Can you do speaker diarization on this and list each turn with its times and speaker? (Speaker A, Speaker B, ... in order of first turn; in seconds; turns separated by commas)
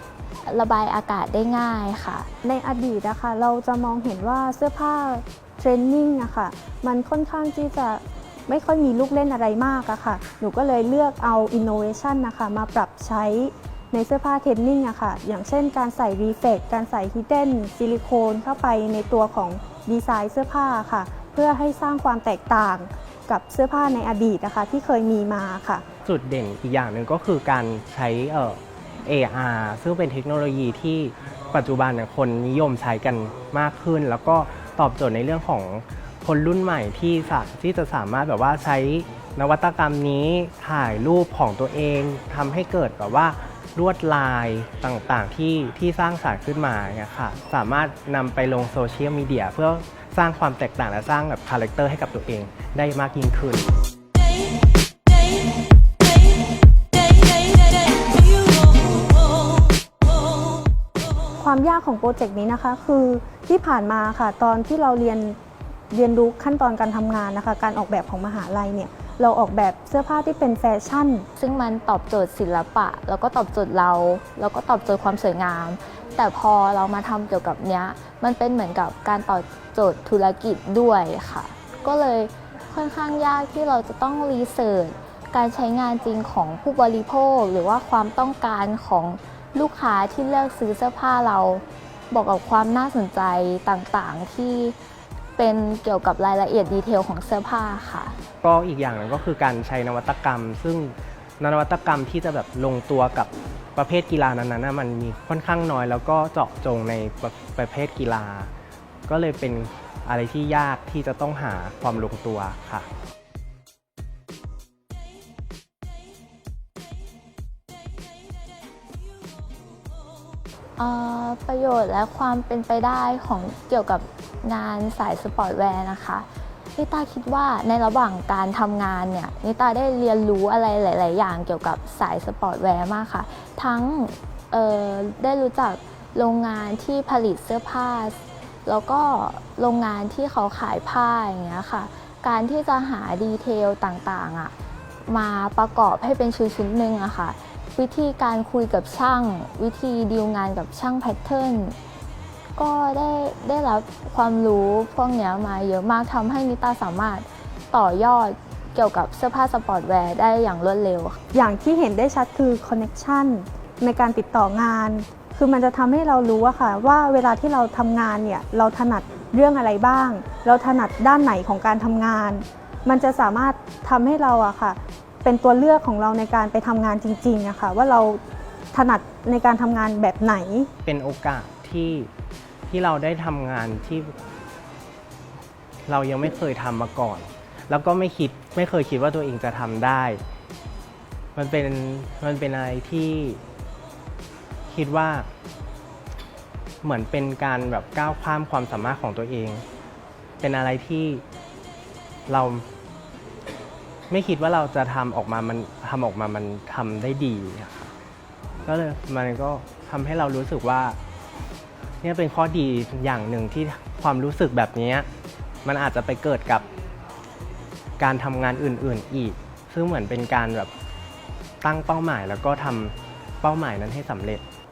Speaker A: 0.4-2.3, Speaker B: 2.4-25.8, Speaker C: 26.0-53.6, Speaker B: 61.4-65.4, Speaker B: 65.9-71.2, Speaker A: 71.4-94.8, Speaker A: 95.4-98.2, Speaker C: 98.4-108.5, Speaker C: 109.1-112.9, Speaker A: 120.8-144.5, Speaker A: 145.1-151.8, Speaker A: 152.6-161.2, Speaker B: 161.3-178.2, Speaker B: 178.7-180.7, Speaker C: 180.8-182.1, Speaker C: 182.7-184.1, Speaker C: 185.9-190.2, Speaker C: 191.3-193.4, Speaker C: 194.7-195.3, Speaker C: 196.8-199.6, Speaker C: 200.4-201.2, Speaker C: 202.3-202.7, Speaker C: 204.1-207.9, Speaker C: 208.6-211.0, Speaker C: 212.0-215.1, Speaker C: 215.6-216.6, Speaker C: 218.0-220.7, Speaker C: 221.6-224.4